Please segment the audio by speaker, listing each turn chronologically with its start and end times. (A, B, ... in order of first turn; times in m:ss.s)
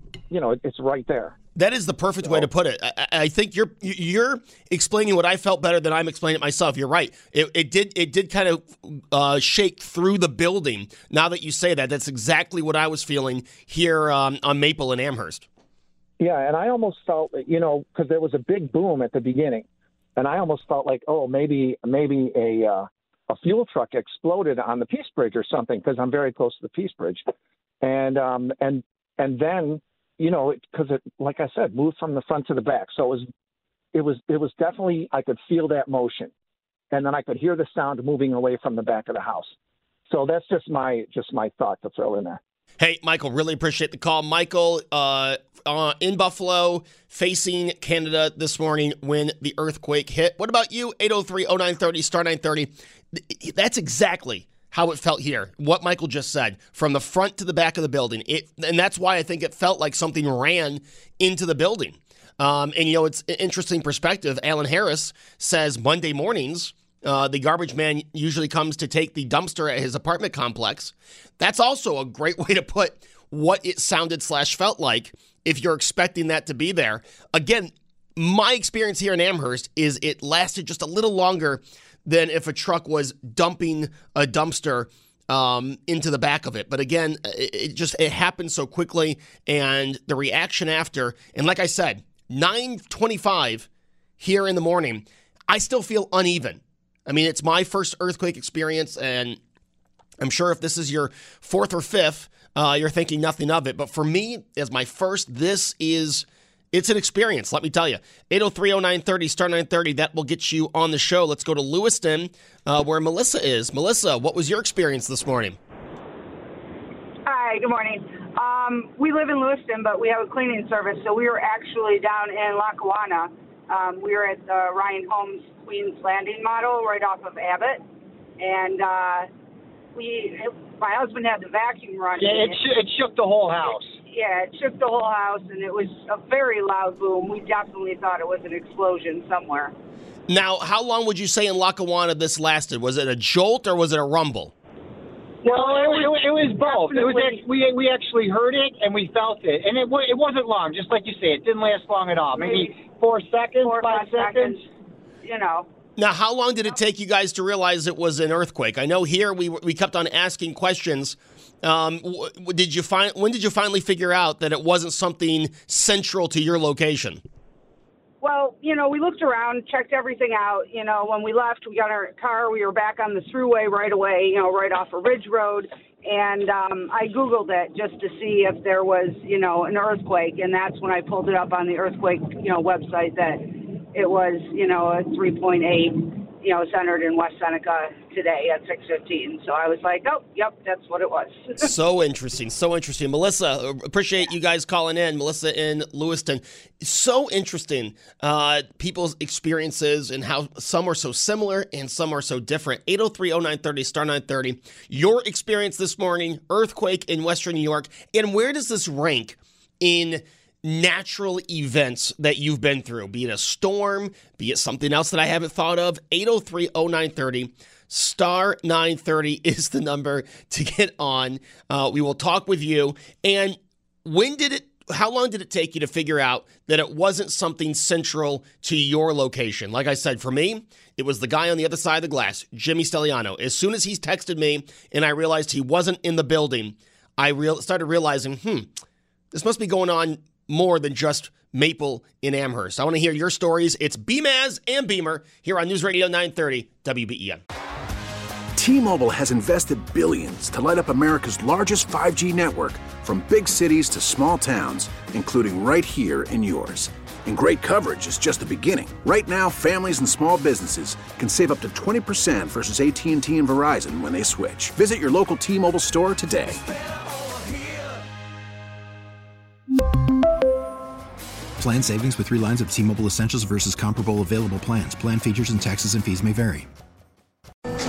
0:00.3-0:01.3 A
0:01.6-0:15.5 B
0:16.2-0:27.2 A
0:27.8-0:33.2 A
0:33.9-0:36.3 A
0:36.9-0:39.5 A
0:40.1-0:42.4 A
0:42.8-1:33.7 B
1:34.2-1:39.4 B
1:40.2-1:55.6 B
1:57.2-2:07.8 C
2:08.4-2:09.3 C
2:09.9-2:12.6 C
2:12.2-2:14.0 D
2:14.1-2:19.7 C
2:20.3-2:24.5 B
2:25.4-2:34.6 D
2:25.4-2:27.4 C
2:32.4-2:32.7 C
2:33.6-2:34.6 C
2:35.2-2:35.7 C
2:36.0-2:47.2 B
2:48.2-3:11.7 C
3:11.6-3:58.7 B
3:59.3-4:07.4 B
4:08.6-4:26.6 E
4:31.6-4:36.7 F